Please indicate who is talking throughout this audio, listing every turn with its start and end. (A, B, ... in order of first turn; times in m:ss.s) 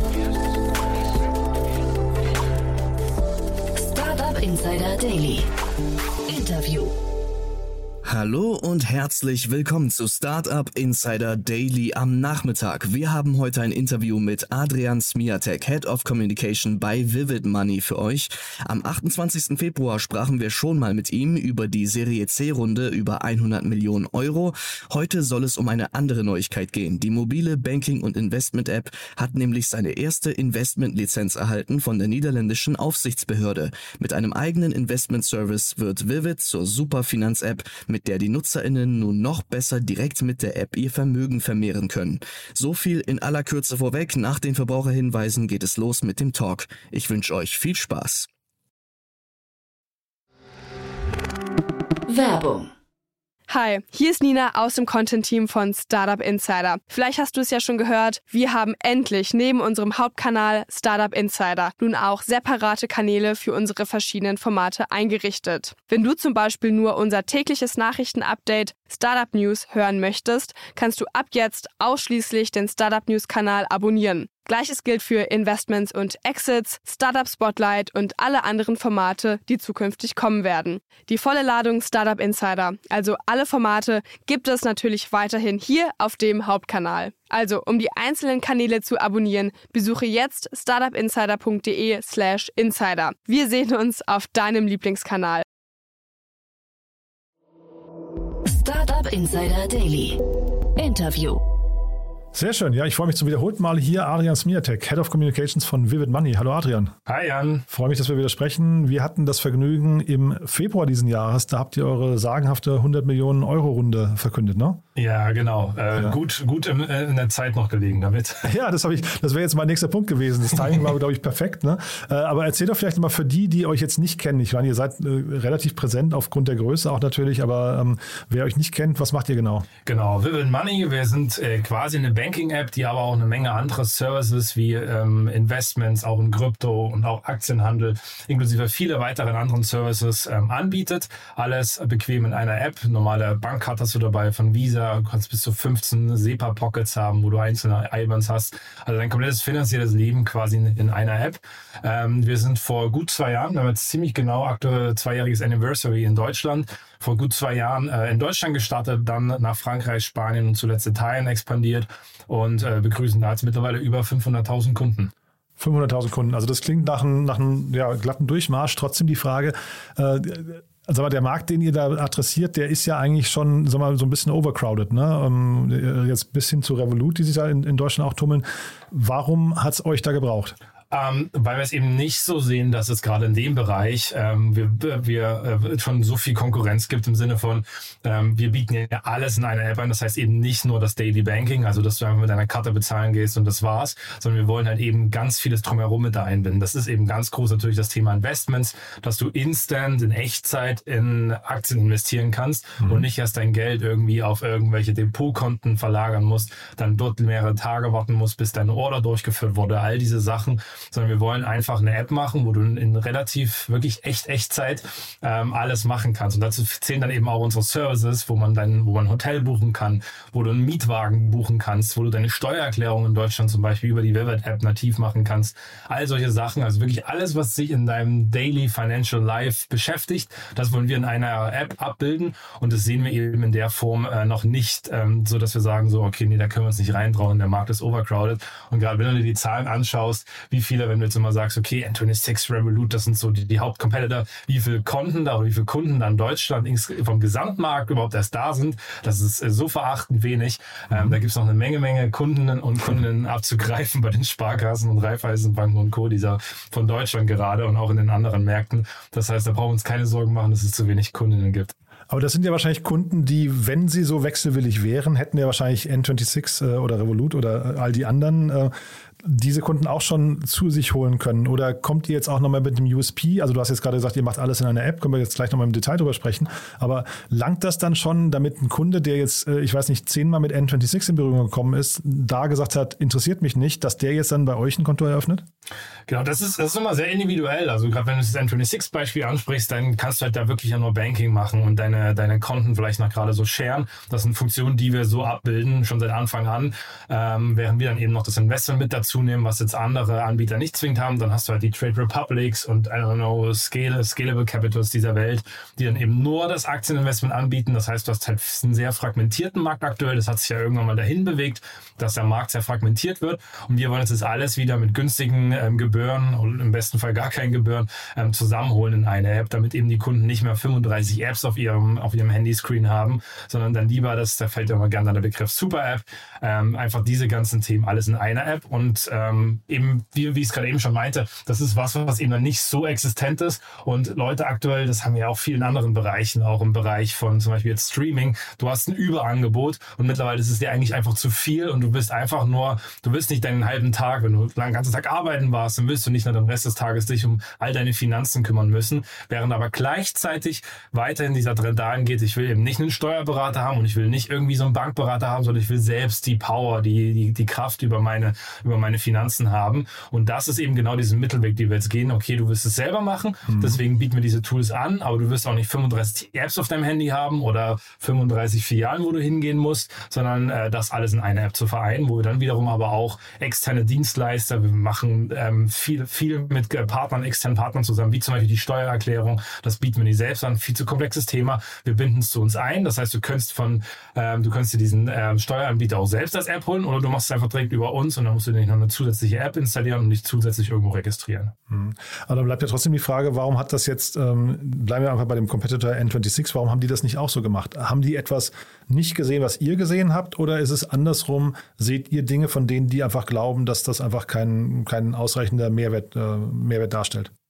0:03.8-0:05.5 A
0:06.3-0:06.9 A
0:08.0-0:48.3 B
0:52.1-0:52.7 A
0:53.5-1:35.4 C
1:38.4-1:40.2 A
1:40.8-1:41.4 A
1:42.3-1:46.9 D
1:47.1-1:47.6 E
1:47.7-1:54.8 D
1:55.0-1:58.4 E
1:58.4-2:09.7 D
2:09.8-2:45.1 E
2:45.6-3:00.5 D
3:00.9-4:21.7 E
3:22.8-3:23.1 D
4:10.9-4:11.2 D
4:22.1-4:45.4 D
4:46.1-6:31.5 E
6:03.5-6:03.8 D
6:31.7-6:47.3 D